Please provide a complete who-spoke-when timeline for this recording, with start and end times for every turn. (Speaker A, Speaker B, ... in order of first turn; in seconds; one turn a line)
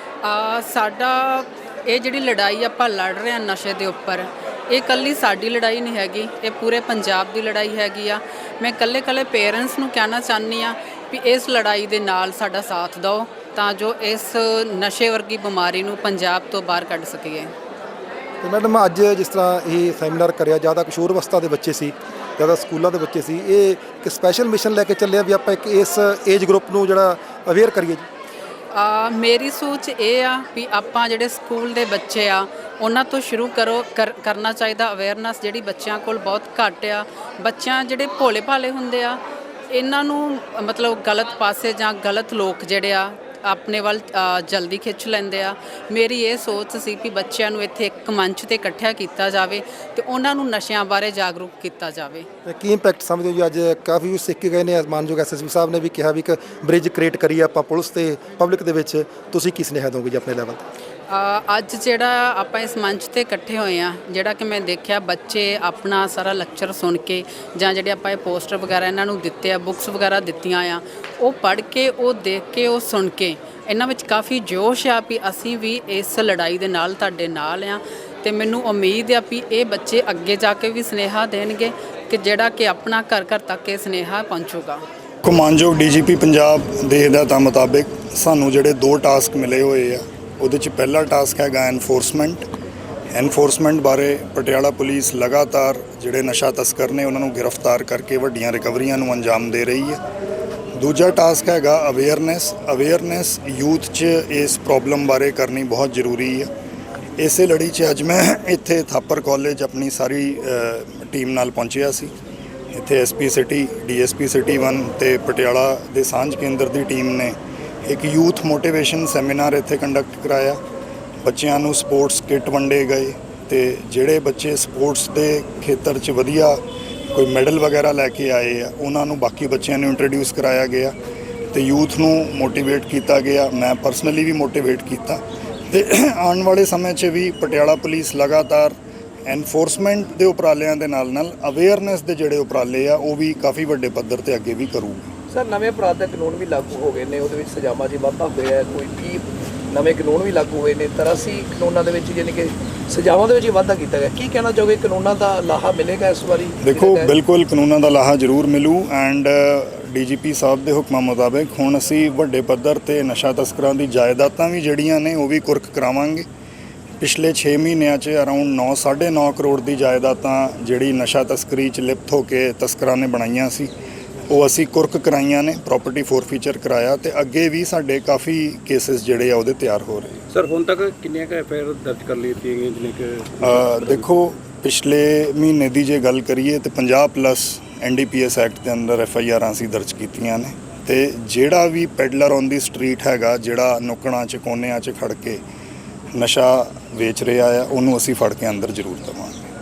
Speaker A: 0.2-17.5
Speaker B: 18.4-28.1
Speaker A: 28.7-52.3
Speaker B: 52.4-60.6
Speaker A: 61.1-84.8
Speaker C: 85.2-92.5
Speaker C: 93.1-100.0
Speaker C: 100.8-106.5
Speaker C: 107.2-112.1
Speaker C: 112.7-120.6
Speaker C: 121.2-126.6
Speaker C: 127.1-130.9
Speaker C: 131.5-138.8
Speaker C: 139.2-145.1
Speaker D: 145.3-157.1
Speaker C: 156.6-166.2
Speaker C: 167.0-173.7
Speaker C: 174.3-180.2
Speaker E: 180.3-184.0
Speaker C: 183.4-195.4
Speaker C: 196.1-199.4